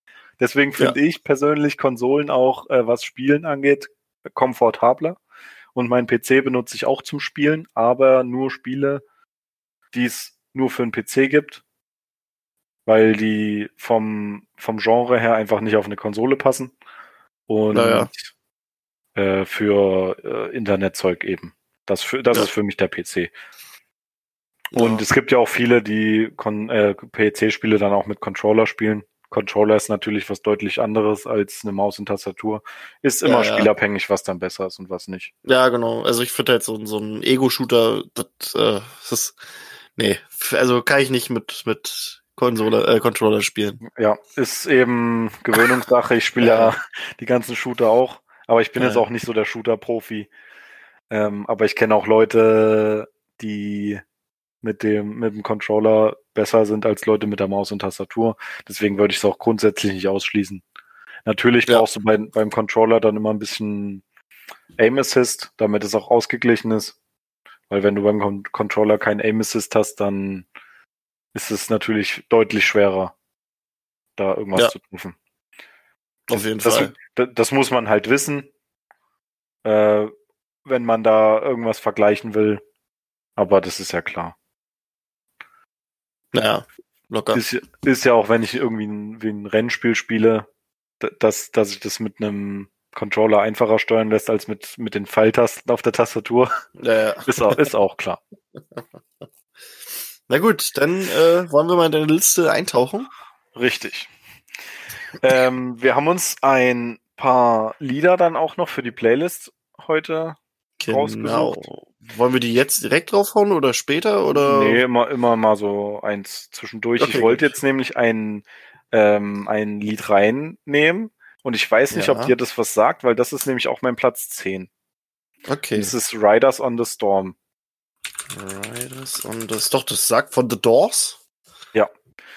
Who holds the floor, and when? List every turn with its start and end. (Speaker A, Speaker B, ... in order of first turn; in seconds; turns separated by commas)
Speaker A: 0.4-5.2, Speaker A: 5.7-9.0, Speaker A: 9.9-11.6, Speaker A: 12.9-16.7, Speaker A: 17.5-18.2, Speaker B: 17.7-18.1, Speaker A: 19.1-23.3, Speaker B: 24.7-25.0, Speaker A: 24.8-35.3, Speaker B: 33.2-33.7, Speaker B: 35.4-39.4, Speaker B: 40.0-43.8, Speaker A: 43.8-50.3, Speaker B: 46.4-46.7, Speaker B: 48.8-49.0, Speaker A: 51.1-54.0, Speaker A: 54.6-60.6, Speaker A: 61.2-64.0, Speaker A: 64.8-66.9, Speaker A: 67.7-70.5, Speaker A: 71.3-73.1, Speaker A: 74.2-75.2, Speaker B: 76.3-76.9, Speaker A: 76.3-78.5, Speaker A: 79.6-80.1, Speaker A: 80.6-82.6, Speaker A: 83.4-84.3, Speaker B: 86.3-87.4, Speaker A: 87.3-90.5, Speaker A: 91.0-96.6, Speaker B: 96.8-97.5, Speaker A: 97.2-98.2, Speaker B: 100.3-103.1, Speaker A: 103.5-104.1, Speaker A: 105.2-110.4, Speaker B: 110.8-114.8, Speaker A: 110.9-111.7, Speaker A: 114.3-124.7, Speaker B: 117.0-117.5, Speaker B: 121.9-122.3, Speaker B: 125.5-125.9, Speaker A: 125.7-127.3, Speaker B: 128.3-131.2